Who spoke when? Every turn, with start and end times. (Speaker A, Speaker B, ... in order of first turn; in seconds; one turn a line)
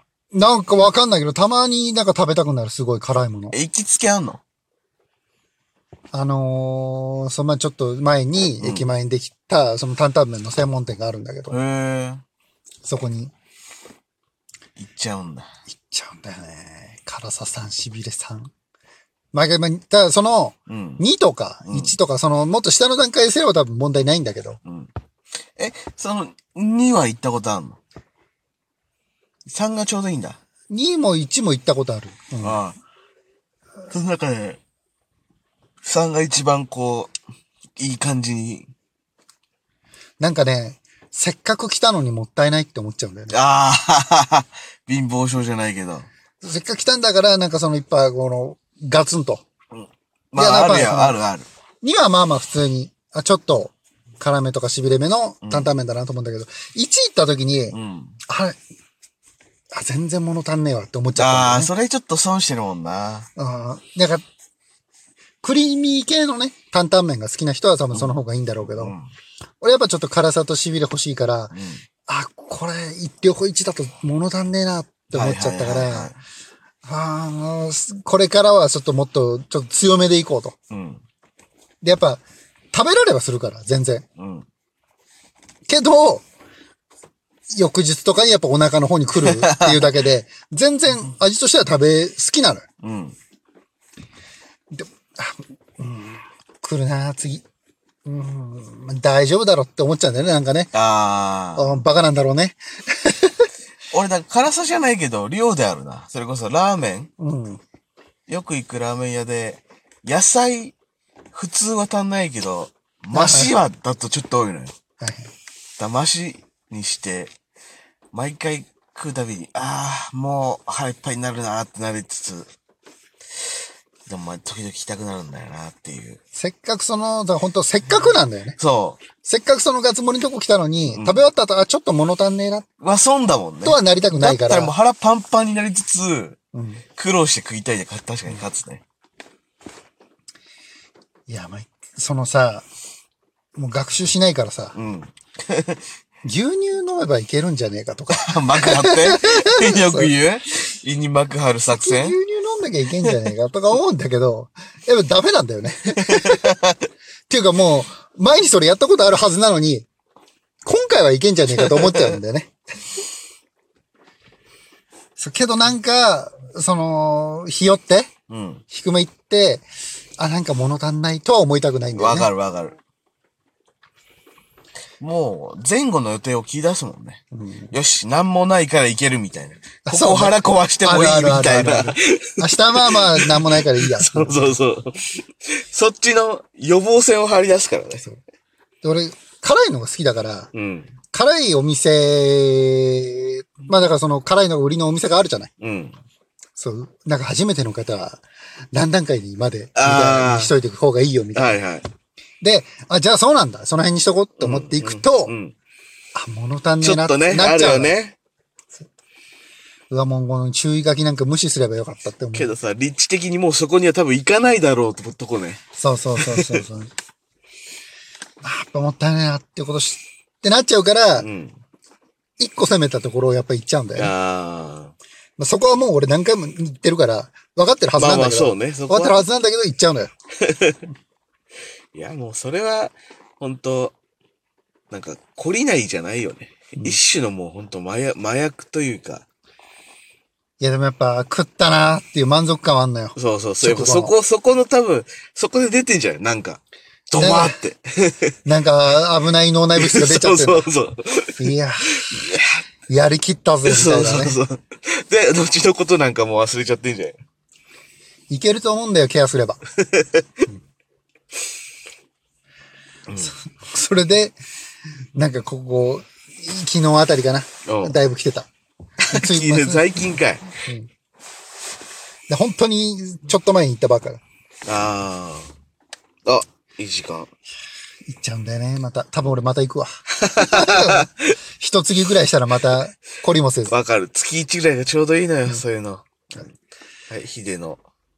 Speaker A: 0.3-3.6
Speaker B: 3.5-4.4
Speaker A: 6.1-11.6
Speaker B: 8.6-8.9
Speaker B: 11.5-12.2
Speaker A: 12.8-13.3
Speaker B: 14.8-15.5
Speaker A: 15.7-18.5
Speaker A: 19.3-24.6
Speaker B: 20.7-21.0
Speaker B: 21.6-21.9
Speaker B: 24.7-24.9
Speaker B: 25.6-27.8
Speaker B: 29.5-30.4
Speaker A: 30.7-32.6
Speaker B: 32.4-32.8
Speaker B: 33.9-34.6
Speaker B: 35.8-37.1
Speaker B: 37.8-38.7
Speaker A: 40.2-43.4
Speaker B: 43.3-46.1
Speaker A: 46.4-49.5
Speaker B: 49.7-51.5
Speaker A: 50.4-51.2
Speaker A: 51.8-57.8
Speaker B: 55.4-55.7
Speaker B: 57.7-58.2
Speaker A: 58.3-58.6
Speaker A: 59.7-61.7
Speaker B: 61.2-63.3
Speaker A: 63.4-64.2
Speaker A: 65.4-69.0
Speaker B: 67.9-69.1
Speaker A: 69.6-71.5
Speaker B: 71.5-71.8
Speaker A: 72.1-76.1
Speaker B: 75.1-76.2
Speaker A: 76.8-80.6
Speaker B: 80.7-81.0
Speaker A: 81.8-82.2
Speaker A: 82.7-84.0
Speaker B: 84.2-84.5
Speaker A: 85.7-86.2
Speaker A: 87.5-92.7
Speaker B: 89.2-89.9
Speaker B: 92.8-93.2
Speaker A: 94.7-97.4
Speaker A: 98.0-100.7
Speaker B: 100.7-101.8
Speaker A: 101.6-103.5
Speaker B: 103.9-107.1
Speaker A: 107.2-107.6
Speaker B: 108.3-110.8
Speaker B: 111.3-114.7
Speaker A: 113.1-113.5
Speaker A: 115.0-115.3
Speaker B: 115.8-117.3
Speaker B: 118.1-122.5
Speaker B: 124.1-126.2
Speaker A: 126.3-128.6
Speaker B: 128.6-129.0
Speaker A: 129.2-132.7
Speaker B: 130.9-131.3
Speaker B: 132.8-136.4
Speaker A: 133.7-134.7
Speaker A: 136.5-136.8
Speaker B: 137.0-138.8
Speaker A: 141.3-142.7
Speaker A: 143.6-144.8
Speaker B: 144.8-145.8
Speaker A: 146.2-150.1
Speaker B: 148.1-152.2
Speaker A: 151.7-156.5
Speaker B: 156.1-156.8
Speaker A: 157.3-159.9
Speaker A: 160.7-162.5
Speaker B: 161.7-162.2
Speaker A: 165.2-168.1
Speaker B: 168.3-168.6
Speaker A: 168.7-169.7
Speaker A: 170.2-172.3
Speaker B: 171.9-172.8
Speaker B: 175.0-188.1
Speaker A: 177.3-177.8
Speaker A: 179.9-184.5
Speaker A: 188.8-190.5
Speaker B: 190.5-190.9
Speaker A: 191.1-195.5
Speaker B: 195.6-196.0
Speaker A: 196.6-201.6
Speaker B: 199.8-200.6
Speaker B: 201.3-201.9
Speaker A: 202.4-205.4
Speaker B: 204.4-205.6
Speaker A: 206.2-208.0
Speaker B: 206.8-208.2
Speaker A: 209.9-212.5
Speaker B: 212.3-215.6
Speaker A: 215.8-216.9
Speaker B: 216.2-216.6
Speaker A: 218.4-221.3
Speaker B: 221.2-221.6
Speaker A: 222.4-224.1
Speaker B: 223.9-224.9
Speaker A: 225.4-230.1
Speaker B: 228.0-229.2
Speaker B: 230.4-230.8
Speaker B: 231.9-233.9
Speaker B: 234.9-239.2
Speaker A: 240.6-244.2
Speaker B: 243.2-248.3
Speaker A: 247.2-247.6
Speaker A: 248.4-250.7
Speaker B: 249.8-252.6
Speaker A: 251.4-252.0
Speaker A: 252.9-254.4
Speaker B: 253.6-257.2
Speaker A: 258.3-259.6
Speaker B: 259.8-260.4
Speaker B: 263.1-263.4
Speaker A: 263.5-264.4
Speaker A: 265.2-268.5
Speaker B: 267.7-268.0
Speaker A: 269.0-270.0
Speaker B: 269.1-270.6
Speaker A: 272.3-274.2
Speaker B: 274.7-275.5
Speaker B: 276.2-277.3
Speaker A: 278.1-281.1
Speaker B: 280.2-281.4
Speaker A: 281.6-283.7
Speaker B: 283.7-286.5
Speaker B: 287.1-287.8